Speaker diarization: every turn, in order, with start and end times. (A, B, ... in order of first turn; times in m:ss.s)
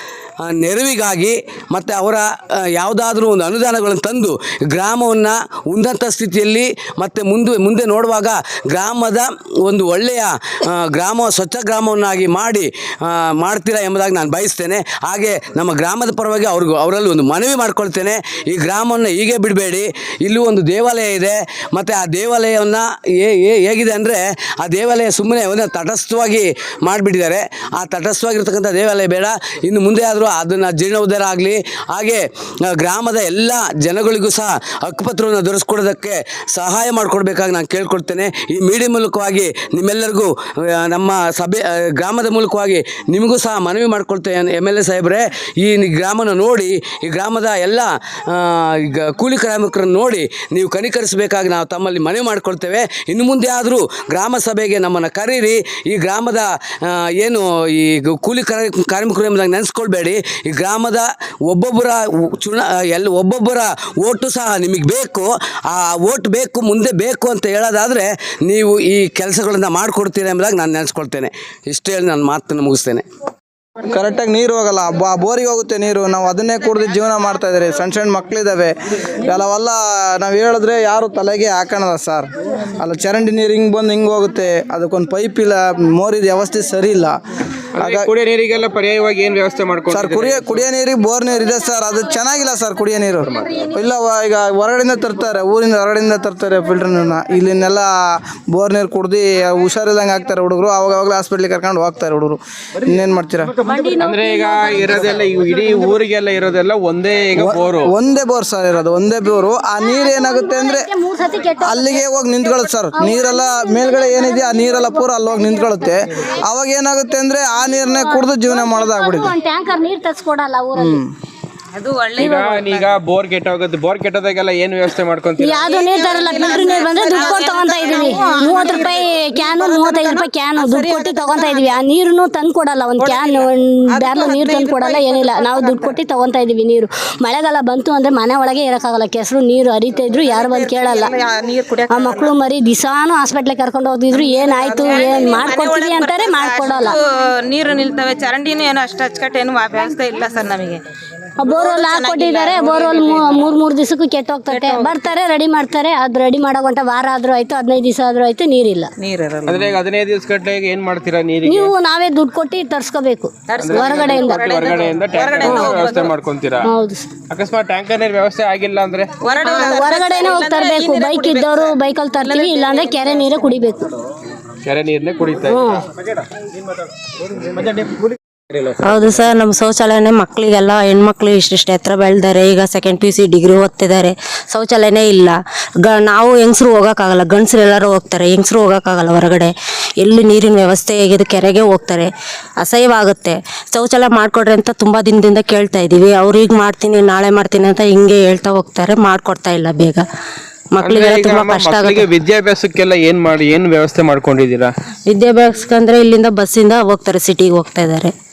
0:00.4-1:13.1 A
1:13.9-1:18.7 B
1:19.2-1:22.3 B
1:22.8-1:27.1 B
1:27.8-1:30.6 C
1:27.8-1:28.1 B
1:29.9-1:37.9 B
1:38.5-1:43.5 B
1:43.6-1:44.4 D
1:44.0-1:47.9 C
1:47.4-1:50.9 B
1:49.8-1:52.1 E
1:51.6-1:59.4 B
1:52.9-1:55.0 E
1:57.6-2:00.9 E
2:00.8-2:01.1 B
2:01.8-2:02.9 F
2:02.2-2:06.1 C
2:05.4-2:21.2 E
2:05.9-2:11.8 F
2:13.0-2:16.0 F
2:20.2-2:22.4 F
2:21.9-2:27.0 E
2:24.2-2:30.8 F
2:31.4-2:38.9 E
2:31.5-2:33.4 F
2:34.5-2:34.9 F
2:39.0-2:39.7 F
2:39.4-2:41.7 C
2:41.4-2:44.4 E
2:43.5-2:46.1 F
2:43.6-2:46.7 C
2:46.6-2:47.1 E
2:47.3-2:49.1 C
2:49.2-2:53.2 F
2:49.4-2:53.9 E
2:54.6-2:55.6 C
2:55.5-2:55.8 E
2:58.8-3:20.1 D
3:20.7-3:22.1 D
3:20.8-3:24.7 C
3:25.1-3:28.1 D